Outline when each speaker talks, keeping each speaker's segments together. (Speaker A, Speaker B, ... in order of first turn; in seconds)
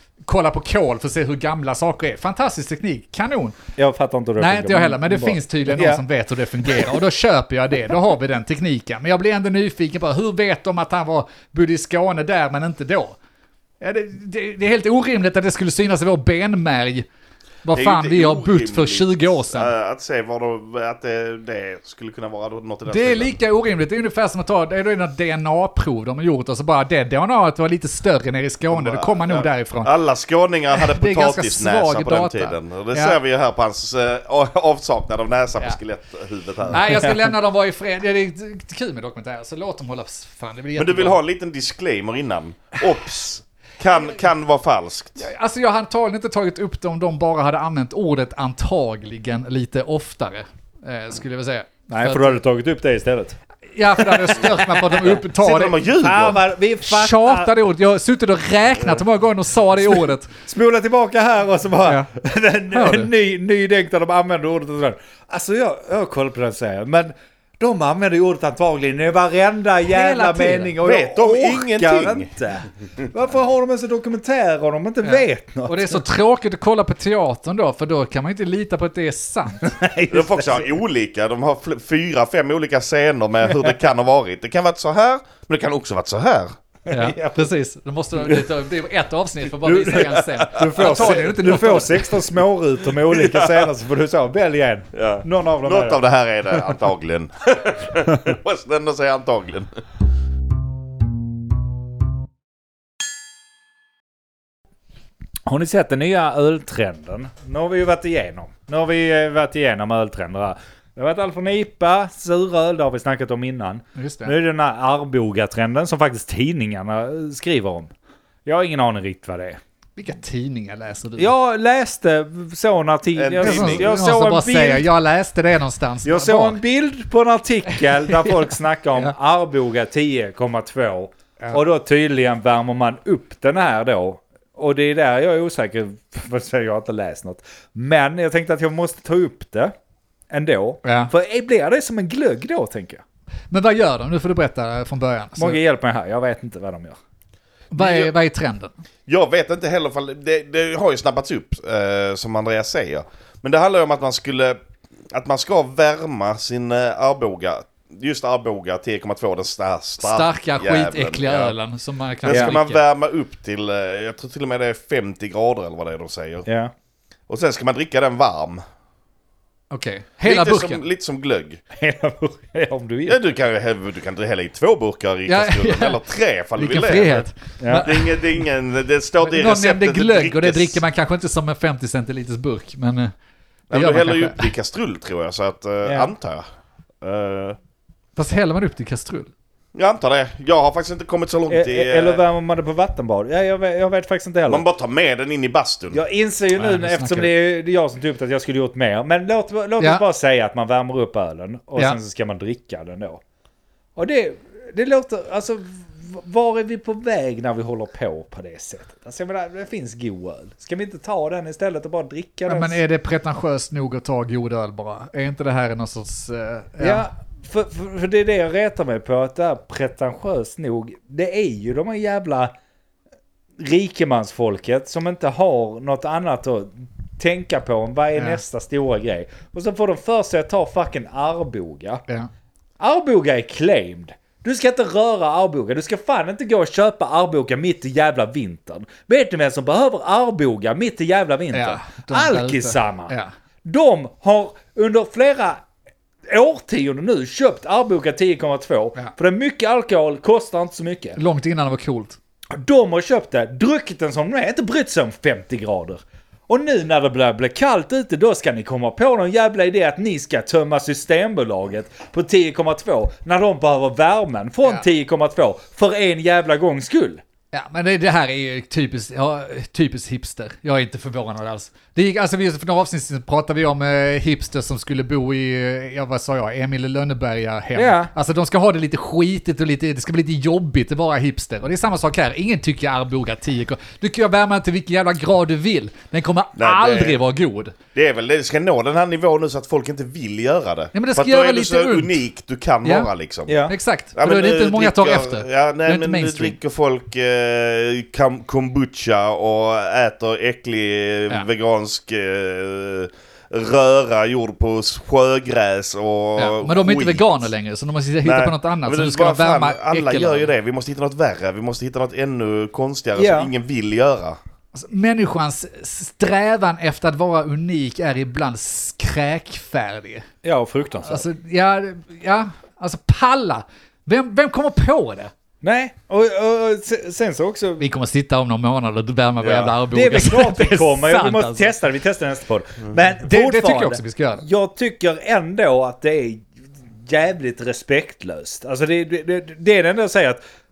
Speaker A: 0.3-3.6, 4.4-13.2, 13.8-17.1, 17.6-19.7, 22.9-29.9, 30.7-33.2, 36.7-41.2, 45.2-52.4, 53.7-55.8, 56.8-60.3, 62.7-63.1, 69.8-70.8, 75.0-79.7, 86.9-92.1, 114.0-114.3, 120.0-121.3, 123.4-126.6, 128.0-129.1, 140.8-141.1, 143.5-145.6, 147.7-148.7, 160.0-162.8, 169.7-170.8, 175.3-176.0, 176.6-178.2, 179.2-183.1, 183.7-184.5, 188.2-189.3, 196.6-197.3, 212.5-217.1, 241.5-243.3, 251.2-252.2, 267.5-287.7, 290.9-292.2, 292.8-293.1, 293.7-296.6, 306.4-310.5, 314.7-320.3, 321.0-325.3, 327.8-331.7, 333.2-334.4
Speaker B: 3.8-6.0, 36.9-37.3, 51.9-53.4, 54.0-54.5, 56.0-57.5, 60.4-76.0, 79.6-80.7, 86.9-87.4, 89.6-96.0, 105.5-117.9, 118.5-119.6, 121.2-124.9, 126.0-139.7, 140.3-143.0, 145.4-147.0, 162.3-162.5, 166.4-166.7, 171.7-173.2, 177.6-177.8, 185.8-186.1, 191.5-194.6, 195.9-203.2, 203.9-212.8, 216.8-222.5, 223.6-232.0, 232.8-245.6, 246.3-251.2, 252.5-267.2, 277.7-278.1, 293.5-293.7, 313.1-313.5, 320.4-321.3, 325.6-327.8, 329.9-336.5, 337.0-340.4
Speaker C: 17.7-23.4, 28.7-36.9, 40.8-45.2, 55.0-56.4, 70.8-72.3, 80.1-86.5, 93.1-93.6, 94.9-99.7, 123.2-123.9, 147.8-148.1, 149.1-154.6, 155.1-161.5, 162.2-166.4, 167.3-168.6, 170.2-171.6, 173.1-177.2, 177.8-180.8, 183.7-186.4, 187.0-187.6, 189.7-192.2, 194.5-196.0, 286.6-287.2, 287.9-293.6, 294.1-307.4, 308.2-314.4, 329.4-329.7